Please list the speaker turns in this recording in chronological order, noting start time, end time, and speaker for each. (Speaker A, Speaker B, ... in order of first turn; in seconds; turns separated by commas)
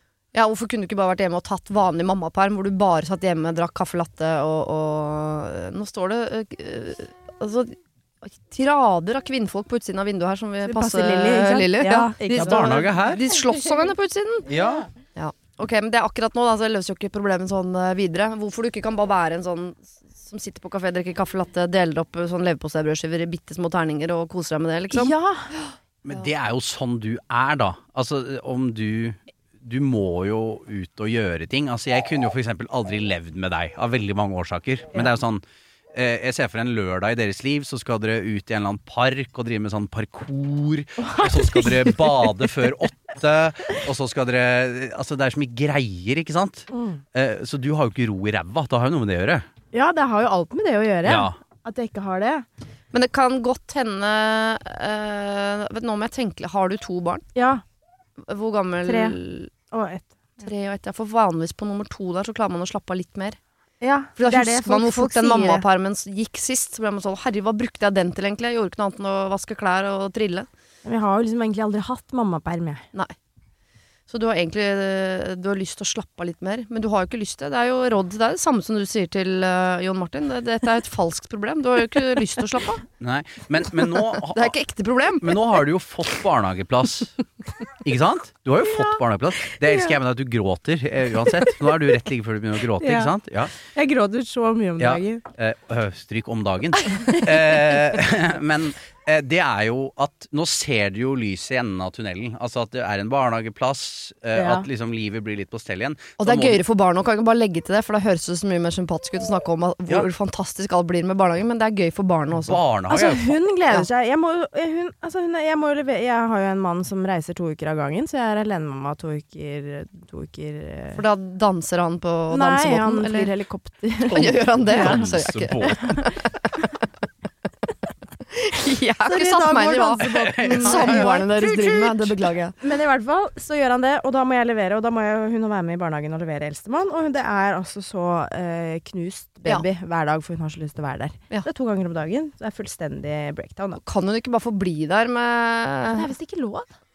Speaker A: 0.3-14.5, Speaker B: 10.7-12.8, Speaker C: 12.3-13.2, Speaker C: 14.5-14.9, Speaker A: 15.2-25.1, Speaker B: 24.9-25.5, Speaker C: 26.0-35.4, Speaker C: 35.9-49.5, Speaker B: 41.1-42.0, Speaker B: 46.7-47.0, Speaker B: 49.7-52.5, Speaker C: 51.0-51.4, Speaker A: 52.9-57.2, Speaker B: 57.3-57.6, Speaker A: 58.2-59.5, Speaker B: 58.8-59.1, Speaker B: 59.7-60.2, Speaker A: 60.4-63.4, Speaker B: 63.8-65.6, Speaker A: 64.2-70.5, Speaker B: 70.8-72.8, Speaker A: 74.1-82.8, Speaker C: 83.0-84.5, Speaker A: 84.3-85.4, Speaker C: 85.2-87.2, Speaker C: 87.8-93.5, Speaker B: 92.8-95.2, Speaker C: 94.8-106.6, Speaker B: 104.3-104.7, Speaker A: 106.2-112.6, Speaker C: 112.5-113.4, Speaker B: 112.9-121.0, Speaker A: 121.0-123.3, Speaker B: 122.3-125.1, Speaker C: 124.1-126.1, Speaker A: 124.1-125.8, Speaker A: 128.4-132.6, Speaker B: 129.1-131.1, Speaker C: 130.0-132.3, Speaker B: 132.6-143.8, Speaker A: 143.8-146.1, Speaker B: 145.9-146.7